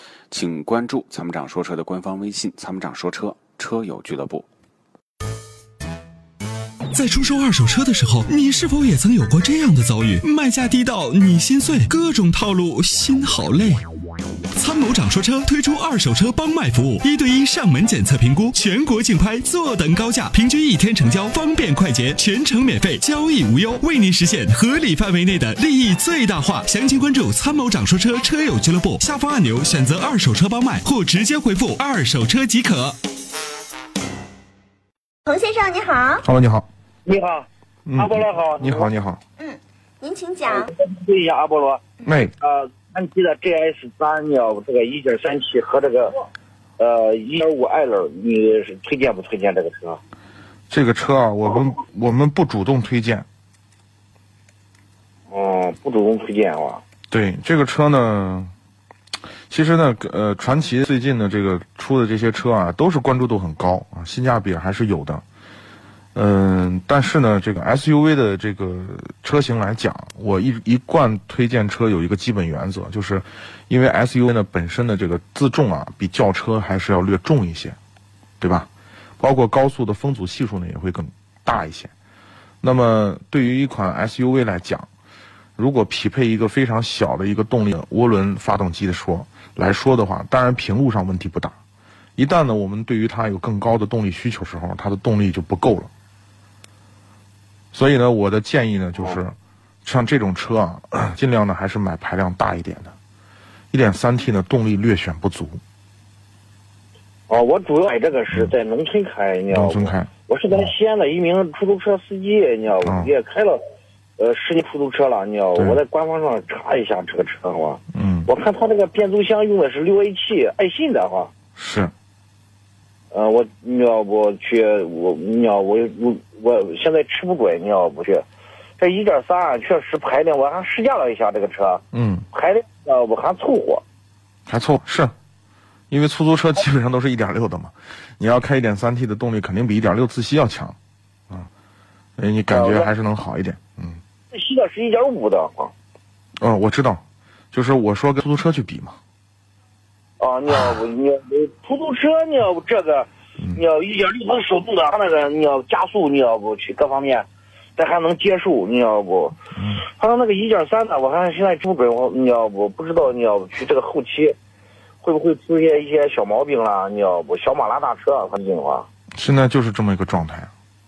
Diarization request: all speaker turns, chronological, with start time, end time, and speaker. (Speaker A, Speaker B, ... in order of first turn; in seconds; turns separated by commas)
Speaker A: 0.3-4.4, Speaker B: 6.9-13.8, Speaker B: 14.5-33.0, Speaker C: 35.2-36.2, Speaker D: 36.2-36.7, Speaker E: 37.0-38.9, Speaker D: 37.9-39.2, Speaker C: 39.4-40.7, Speaker E: 40.5-41.8, Speaker D: 42.0-42.3, Speaker E: 42.4-46.2, Speaker E: 46.8-50.0, Speaker D: 50.7-53.2, Speaker E: 55.3-56.8, Speaker D: 57.1-58.5, Speaker D: 59.5-65.2, Speaker D: 66.1-77.8, Speaker D: 78.4-78.7, Speaker D: 79.2-81.9, Speaker D: 82.6-84.9, Speaker D: 85.6-91.5, Speaker D: 92.2-95.9, Speaker D: 97.7-102.9, Speaker D: 103.7-105.6, Speaker E: 107.3-113.6, Speaker D: 109.5-110.1, Speaker D: 112.8-113.1, Speaker E: 114.2-121.3, Speaker D: 115.5-115.8, Speaker D: 117.9-118.3, Speaker D: 121.5-121.9, Speaker E: 123.1-128.2, Speaker E: 128.8-133.8, Speaker D: 131.9-132.3, Speaker D: 134.5-135.1, Speaker D: 135.9-140.8, Speaker D: 142.2-144.0, Speaker E: 142.5-142.9, Speaker E: 144.3-145.7, Speaker D: 146.4-148.9, Speaker E: 150.2-164.3, Speaker D: 159.6-159.8, Speaker E: 165.0-168.9, Speaker D: 169.1-170.5